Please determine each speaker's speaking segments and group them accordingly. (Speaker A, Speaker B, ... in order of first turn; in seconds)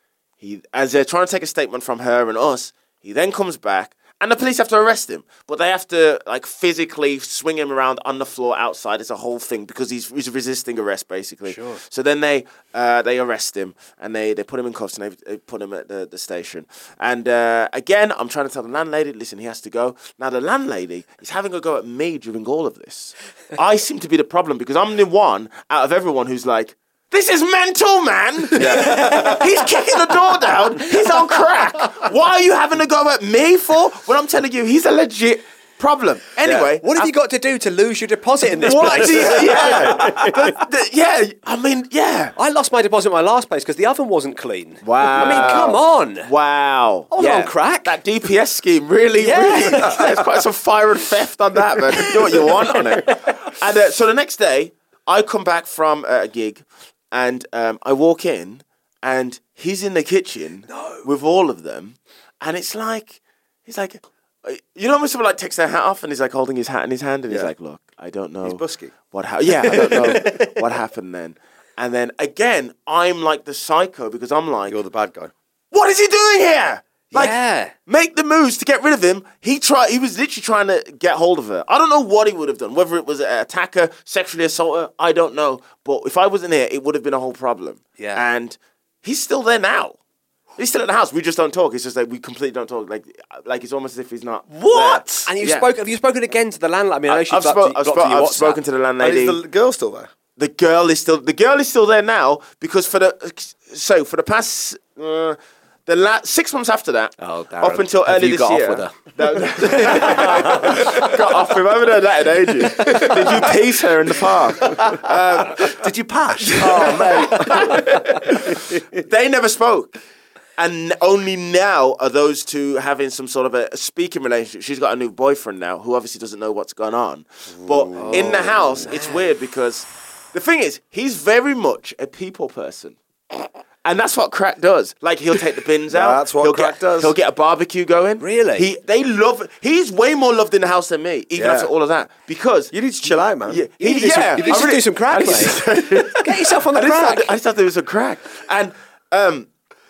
Speaker A: 0.4-37.1, 38.6-42.3, 44.8-74.8, 75.7-90.0, 90.6-95.7, 97.1-99.4, 100.4-115.8, 116.5-120.0, 120.6-142.7, 143.5-149.5
Speaker B: 11.5-11.8, 28.7-29.3, 36.8-40.3, 42.4-46.3, 47.1-48.0, 49.2-50.1, 52.1-53.4, 69.7-70.6, 77.1-77.7, 88.0-88.2, 94.5-98.6, 128.8-129.3, 138.2-138.7, 143.8-147.3
Speaker C: 28.5-29.5, 36.4-36.7, 38.8-40.3, 45.2-45.8, 68.4-68.9, 74.7-75.3, 99.0-100.1, 127.6-128.9, 135.9-137.2, 141.3-141.7, 142.7-144.7
Speaker D: 107.2-110.9, 115.8-117.5